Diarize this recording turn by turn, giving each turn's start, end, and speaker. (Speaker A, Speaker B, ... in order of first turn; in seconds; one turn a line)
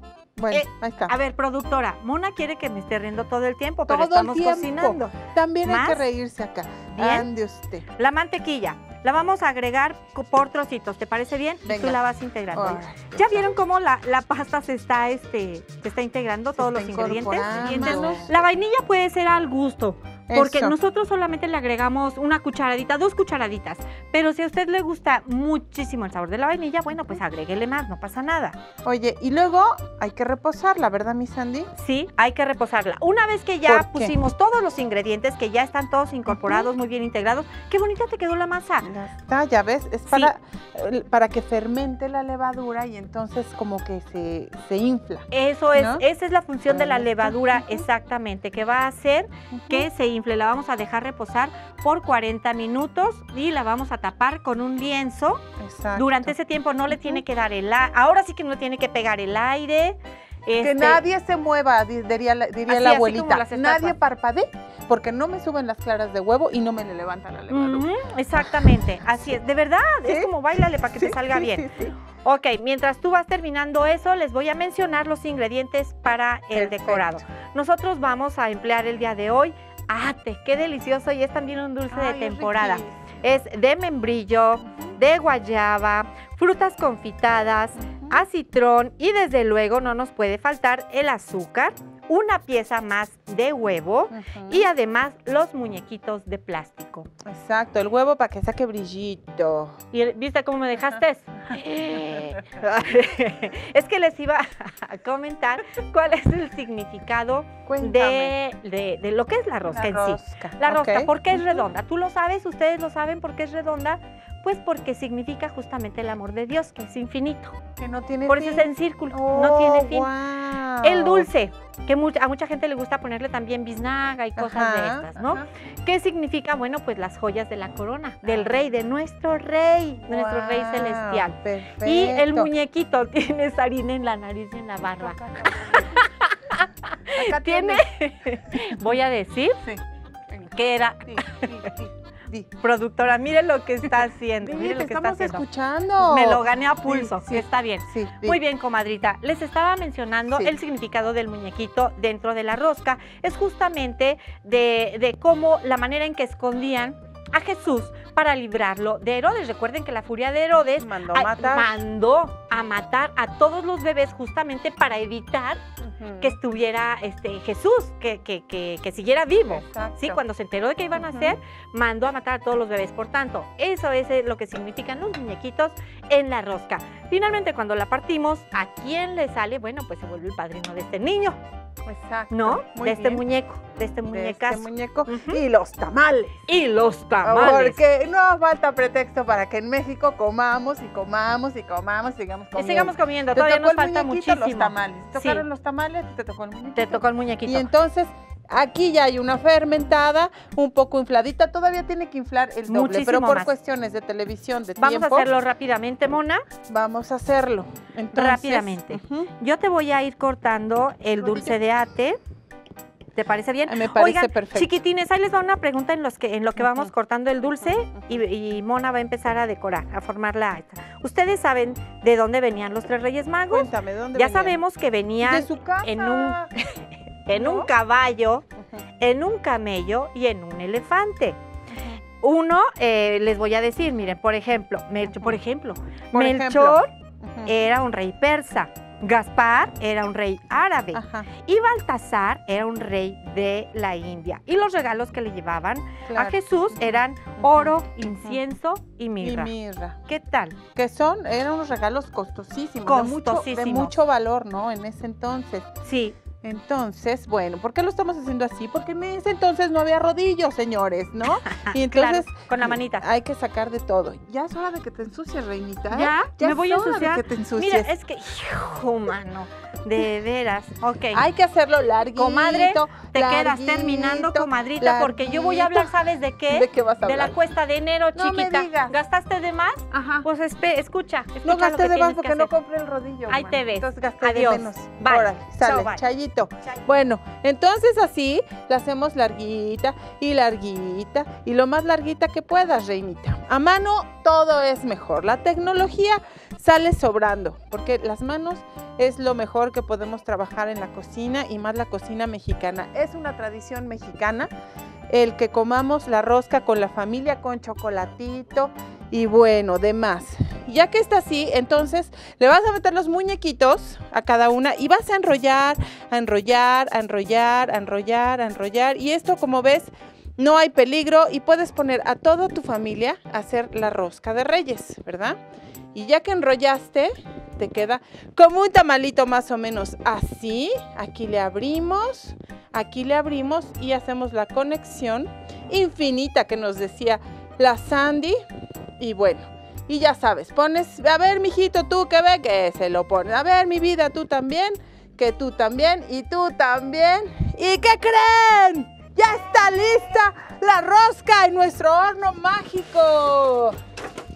Speaker A: 0.4-1.1
Speaker B: 0.5-5.1
Speaker A: 3.9-7.8
Speaker B: 5.6-6.0
Speaker B: 6.9-7.3
Speaker B: 7.9-28.6
Speaker A: 11.6-12.0
Speaker A: 12.5-13.4
Speaker A: 16.6-18.4
Speaker A: 20.3-20.8
Speaker A: 28.8-31.7
Speaker B: 31.8-38.9
Speaker A: 33.7-34.1
Speaker A: 36.3-36.7
Speaker A: 38.8-46.0
Speaker B: 45.3-55.4
Speaker A: 46.7-47.9
Speaker A: 49.5-49.9
Speaker A: 55.6-56.3
Speaker B: 55.9-61.0
Speaker A: 56.9-57.2
Speaker A: 60.6-67.9
Speaker B: 62.7-64.0
Speaker B: 67.5-71.7
Speaker A: 68.4-69.2
Speaker A: 70.0-70.3
Speaker A: 70.9-72.0
Speaker B: 72.2-97.1
Speaker A: 76.5-77.2
Speaker A: 81.9-83.2
Speaker A: 87.8-88.2
Speaker A: 94.1-94.7
Speaker A: 97.2-99.8
Speaker B: 99.9-117.6
Speaker A: 102.1-102.4
Speaker A: 107.7-108.3
Speaker A: 109.7-111.7
Speaker A: 117.8-121.3
Speaker B: 118.3-120.1
Speaker B: 120.8-139.6
Speaker A: 124.4-125.4
Speaker A: 128.2-128.5
Speaker A: 130.1-132.5
Speaker A: 134.9-136.0
Speaker A: 137.1-137.9
Speaker A: 139.6-140.5
Speaker B: 140.5-141.7
Speaker A: 141.1-142.5
Speaker B: 142.6-145.4
Speaker A: 144.4-148.4
Speaker B: 146.0-165.6
Speaker A: 160.8-161.8
Speaker A: 165.8-166.4
Speaker B: 166.2-181.4
Speaker A: 169.5-170.2
Speaker A: 170.9-171.3
Speaker A: 181.8-183.2
Speaker B: 182.3-185.4
Speaker A: 184.1-186.4
Speaker B: 186.5-187.8
Speaker A: 187.2-205.4
Speaker B: 192.6-195.4
Speaker B: 196.8-197.7
Speaker B: 202.7-203.5
Speaker B: 204.8-206.4
Speaker A: 206.7-209.3
Speaker B: 208.1-212.2
Speaker A: 211.2-211.6
Speaker B: 213.1-228.4
Speaker A: 213.7-214.8
Speaker A: 216.6-216.9
Speaker A: 223.5-224.6
Speaker A: 225.2-226.5
Speaker A: 227.3-227.7
Speaker B: 229.0-231.4
Speaker A: 231.7-232.0
Speaker B: 232.2-236.9
Speaker A: 235.1-235.4
Speaker A: 236.1-237.6
Speaker B: 237.4-249.5
Speaker A: 240.9-241.3
Speaker A: 246.0-246.8
Speaker A: 247.4-248.4
Speaker A: 249.2-250.0
Speaker B: 250.1-250.6
Speaker A: 250.7-255.7
Speaker B: 252.8-253.9
Speaker B: 255.8-256.1
Speaker A: 256.4-267.9
Speaker B: 261.4-263.0
Speaker B: 265.9-271.2
Speaker A: 271.1-276.0
Speaker B: 272.1-282.5
Speaker A: 276.5-277.4
Speaker A: 278.1-278.9
Speaker A: 279.9-280.3
Speaker A: 281.4-304.5
Speaker B: 283.3-286.0
Speaker A: 305.1-325.4
Speaker A: 325.9-338.4
Speaker A: 339.0-353.7